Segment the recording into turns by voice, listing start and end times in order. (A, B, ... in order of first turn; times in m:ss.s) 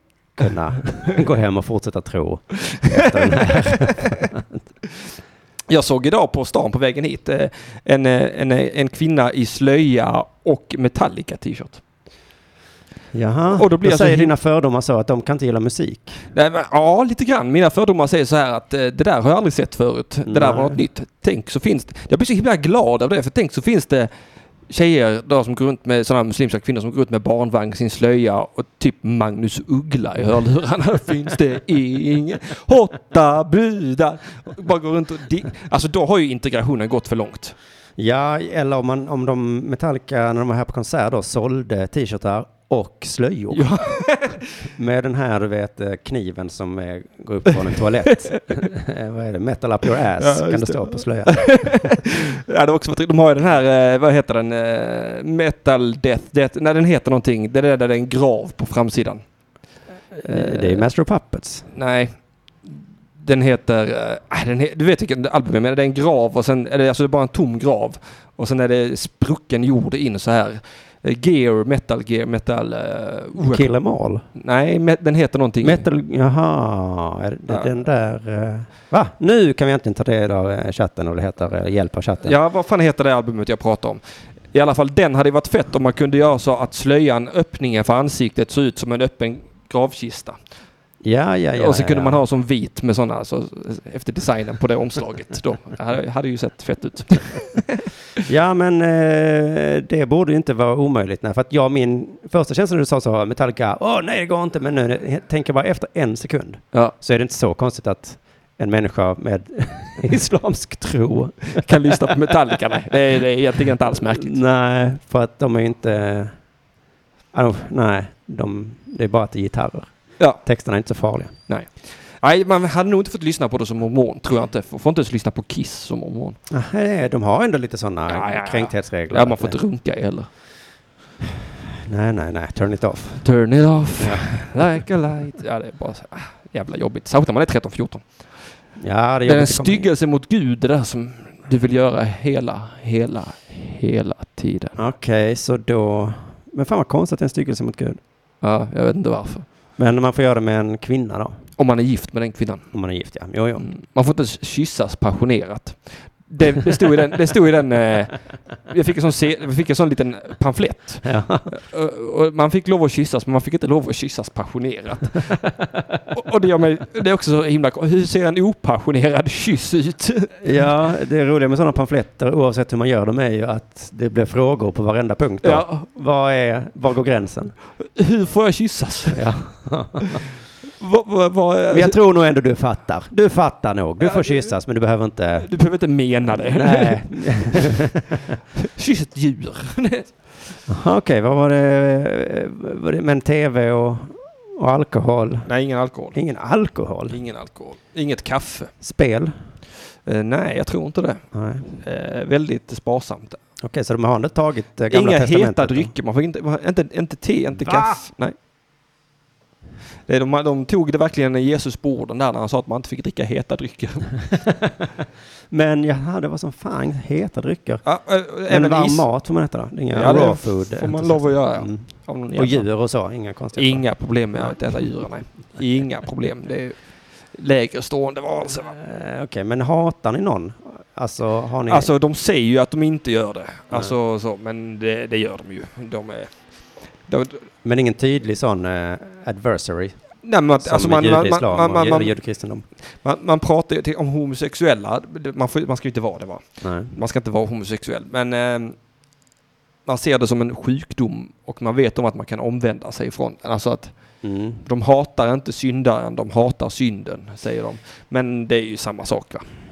0:00.4-0:04.6 A
0:02.9-0:04.1 B
0:05.7-0:11.8 B
0:13.1-0:16.2 A
0:13.5-0:14.3 B
0:16.3-0:24.1 B
0:20.2-0:20.8 A
0:24.7-0:37.5 B
0:38.0-0:43.8 A
0:43.5-0:44.5 B
0:44.6-0:51.9 A
0:50.2-0:59.2 B
1:00.1-1:01.7 A
1:00.2-1:00.8 B
1:01.7-1:02.1 B
1:02.6-1:13.7 B
1:13.4-1:14.2 A
1:14.3-1:15.9 B
1:15.6-1:22.4 A
1:22.2-1:24.0 B
1:24.5-1:30.4 B
1:31.0-1:32.2 A
1:31.6-1:38.2 B
1:38.2-1:52.1 A
1:51.6-1:54.3 B
1:54.1-1:56.3 A
1:57.3-2:01.3 A
2:01.5-2:06.4 B
2:06.5-2:09.6 A
2:08.1-2:10.3 B
2:11.8-2:13.2 A
2:13.2-2:18.1 B
2:14.0-2:14.2 A
2:18.8-2:19.9 A
2:19.3-2:24.7 B
2:24.8-2:28.0 A
2:28.4-2:29.4 B
2:29.8-2:31.4 A
2:31.6-2:32.7 B
2:32.7-2:33.7 A
2:33.6-2:38.2 B
2:38.7-2:45.4 B
2:41.0-2:41.5 A
2:45.4-2:46.0 A
2:46.1-2:50.4 B
2:50.4-2:57.5 A
2:55.4-2:55.9 B
2:57.9-2:59.2 B
2:59.1-3:00.2 A
3:00.8-3:02.0 B
3:01.7-3:05.5 A
3:04.0-3:04.5 B
3:05.4-3:07.7 B
3:06.4-3:08.2 A
3:08.6-3:10.2 B
3:10.7-3:15.5 A
3:15.4-3:16.2 B
3:16.1-3:17.2 A
3:17.1-3:18.7 B
3:18.8-3:19.3 A
3:20.0-3:21.2 B
3:21.3-3:21.7 A
3:21.8-3:23.4 B
3:23.6-3:25.9 A
3:24.9-3:28.3 B
3:27.5-3:28.0 A
3:30.1-3:34.3 B
3:35.5-3:37.8 A
3:37.8-3:39.1 B
3:38.5-3:43.8 A
3:39.9-3:42.6 B
3:43.6-3:46.8 B
3:47.3-3:48.7 B
3:48.4-3:51.9 A
3:51.7-3:56.4 B
3:57.1-3:57.5 B
3:57.6-4:00.0 A
4:00.2-4:02.1 B
4:00.6-4:02.6 A
4:03.0-4:08.8 B
4:06.6-4:06.9 A
4:09.8-4:13.9 B
4:14.2-4:14.6 A
4:14.6-4:19.4 B